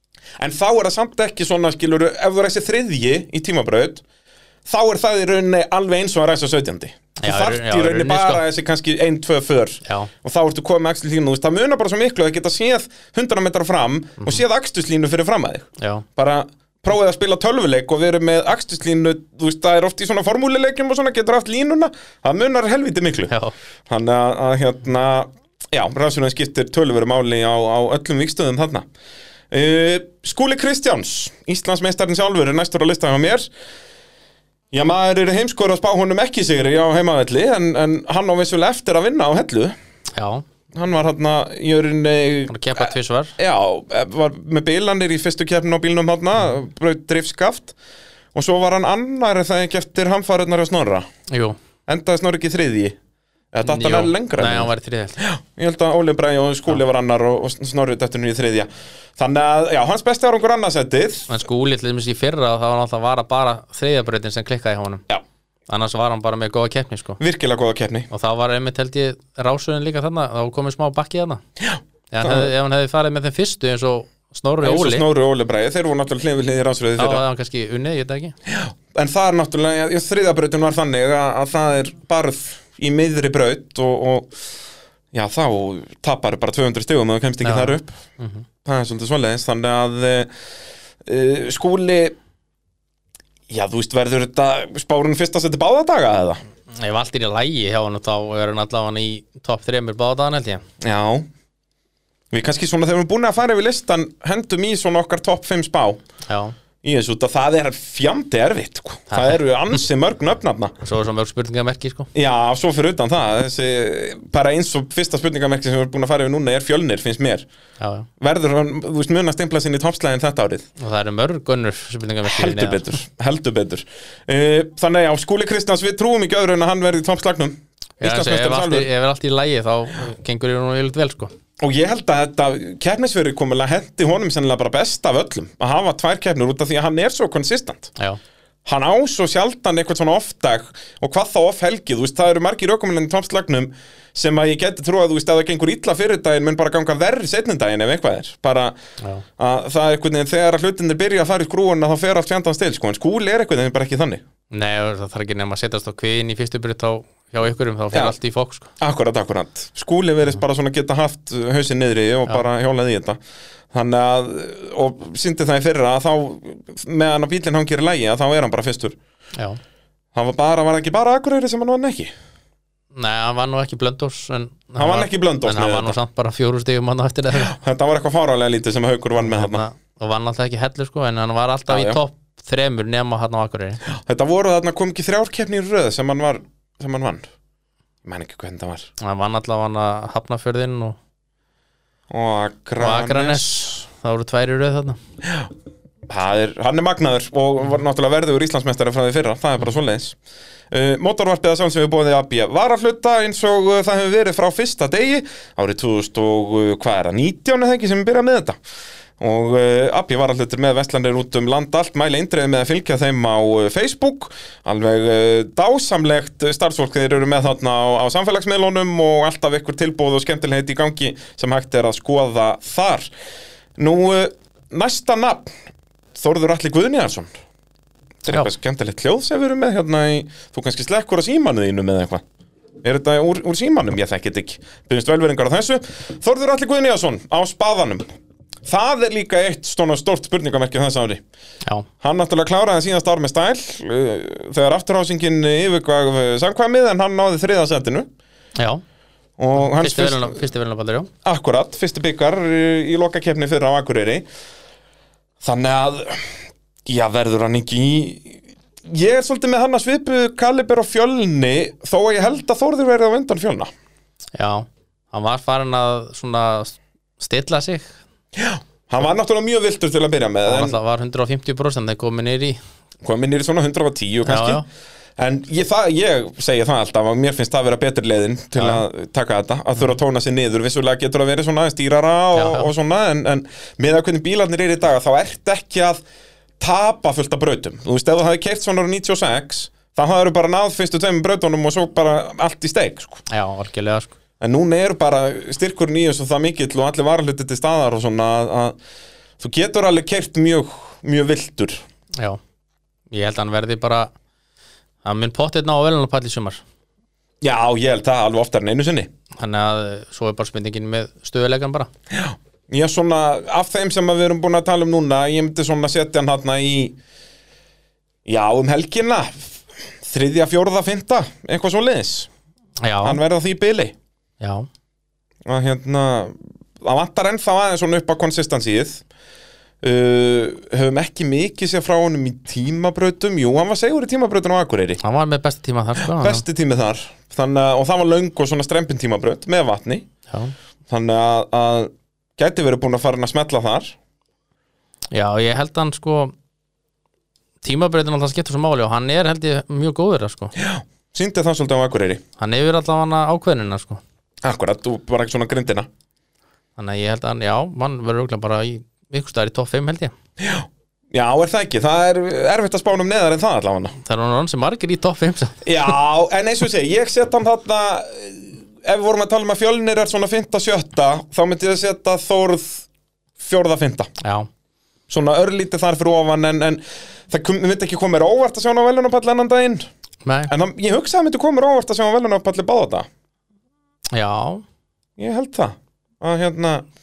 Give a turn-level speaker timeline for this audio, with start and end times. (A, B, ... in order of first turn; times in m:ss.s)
0:00.4-0:04.0 A
0:04.7-0:23.3 A
0:07.2-0:08.4 B
0:09.8-0:10.1 B
0:15.8-0:16.0 B
0:23.3-0:23.6 B
0:23.9-0:28.8 A
0:29.5-0:33.5 A
0:34.7-0:39.7 A
0:40.2-0:40.4 B
0:40.7-0:47.8 A
0:42.5-0:43.4 B
0:48.4-0:51.1 A
0:51.3-0:51.6 B
0:51.9-0:53.0 A
0:53.5-1:01.3 A
0:53.6-0:55.2 B
1:01.3-1:05.0 B
1:05.7-1:07.2 B
1:07.2-1:08.1 A
1:08.1-1:11.4 B
1:11.6-1:12.5 A
1:12.1-1:15.1 B
1:14.6-1:17.2 A
1:17.0-1:18.4 B
1:18.5-1:24.3 A
1:25.1-1:27.9 A
1:27.4-1:28.5 B
1:28.6-1:30.3 A
1:31.0-1:32.2 A
1:33.5-1:36.4 A
1:36.7-1:40.6 B
1:40.8-1:41.3 A
1:42.3-1:46.0 A
1:46.3-1:46.6 B
1:46.8-1:50.8 A
1:49.1-1:49.4 B
1:50.8-1:52.1 B
1:52.1-1:57.4 A
1:57.8-1:58.1 B
1:58.2-2:00.7 A
2:00.8-2:03.0 B
2:02.2-2:08.9 A
2:08.0-2:11.3 B
2:11.6-2:17.9 A
2:18.7-2:28.8 A
2:29.4-2:34.2 A
2:34.5-2:38.7 B
2:38.8-2:43.2 A
2:43.7-2:49.0 A
2:50.2-2:52.1 A
2:53.0-2:57.6 B
2:54.8-2:56.0 A
2:57.4-2:59.6 A
2:59.2-3:03.8 B
3:01.7-3:02.0 A
3:03.9-3:07.2 A
3:08.0-3:08.9 A
3:09.0-3:11.0 B
3:12.1-3:13.6 A
3:12.8-3:15.0 B
3:15.2-3:15.5 A
3:16.1-3:20.2 A
3:20.7-3:28.6 A
3:29.2-3:43.1 A
3:43.8-3:45.5 A
3:46.2-3:47.3 A
3:48.2-3:52.2 A
3:52.8-3:58.0 A
3:58.7-4:01.2 A
4:02.0-4:08.1 A
4:08.6-4:08.8 B
4:09.4-4:10.4 A
4:09.6-4:11.1 B
4:11.2-4:14.2 A
4:15.4-4:23.7 A
4:24.4-4:27.9 B
4:28.4-4:30.8 A
4:30.5-4:32.6 B
4:33.0-4:34.6 A
4:34.3-4:34.6 B
4:35.2-4:46.0 A
4:38.6-4:38.8 B
4:42.3-4:42.7 B
4:46.6-4:53.2 A
4:53.3-4:54.1 B
4:54.4-4:58.8 A
4:59.4-5:01.8 A
5:03.1-5:04.1 B
5:05.0-5:06.6 B
5:07.4-5:09.1 A
5:09.4-5:11.9 B
5:12.1-5:17.0 A
5:18.3-5:22.3 A
5:22.8-5:23.2 B
5:23.0-5:24.0 A
5:24.4-5:24.7 B
5:25.4-5:29.0 A
5:29.8-5:35.0 A
5:35.0-5:36.4 B
5:36.0-5:40.1 A
5:40.9-5:44.0 A
5:45.1-5:46.3 B
5:47.6-5:50.6 B
5:50.6-5:52.2 A
5:52.4-5:54.0 B
5:54.4-5:55.9 A
5:56.8-6:00.1 B
6:00.4-6:04.0 A
6:04.0-6:06.0 B
6:05.6-6:12.8 A
6:13.4-6:14.1 A
6:14.2-6:14.5 B
6:15.1-6:19.9 A
6:20.2-6:20.5 B
6:20.5-6:23.1 A
6:24.1-6:24.6 B
6:25.2-6:26.8 A